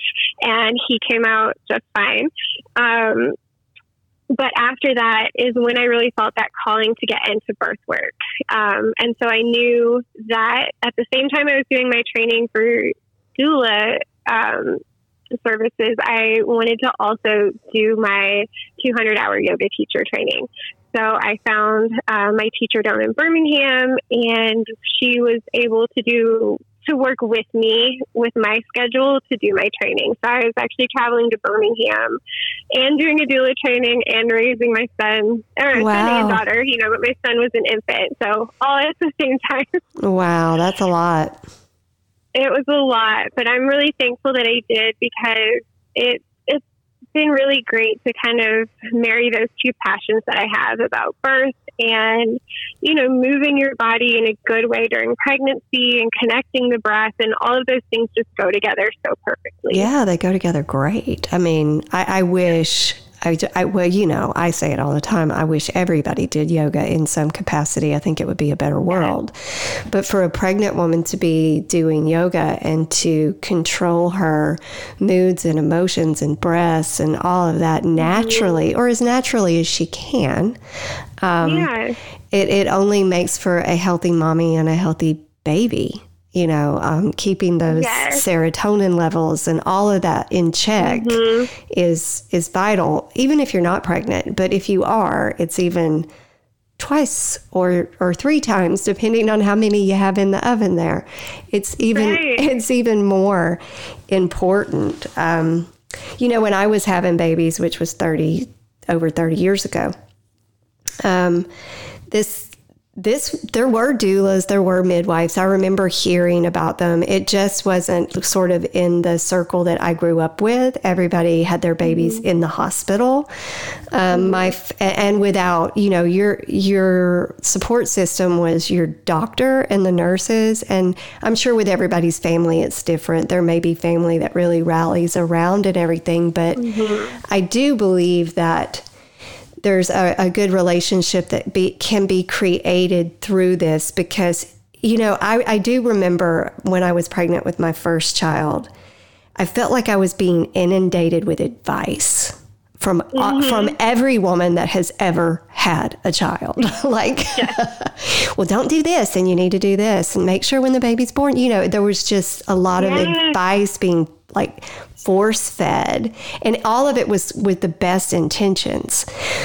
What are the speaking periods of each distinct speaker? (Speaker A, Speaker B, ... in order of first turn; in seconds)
Speaker A: 0.4-3.4, 4.3-14.8, 15.4-32.2, 32.7-39.8, 42.4-46.6, 47.1-59.9, 68.9-69.1, 78.0-78.6, 81.4-82.0, 87.7-88.2, 90.8-91.5, 101.9-102.5, 121.8-122.2, 124.1-124.4, 136.6-137.2, 153.1-153.7, 162.8-163.4
Speaker B: 35.8-36.4, 40.0-41.4, 59.7-80.6, 81.2-81.7, 82.3-96.1, 96.8-109.9, 111.0-111.5, 112.1-123.3, 123.9-136.7, 137.2-138.9, 139.6-148.7, 149.4-169.1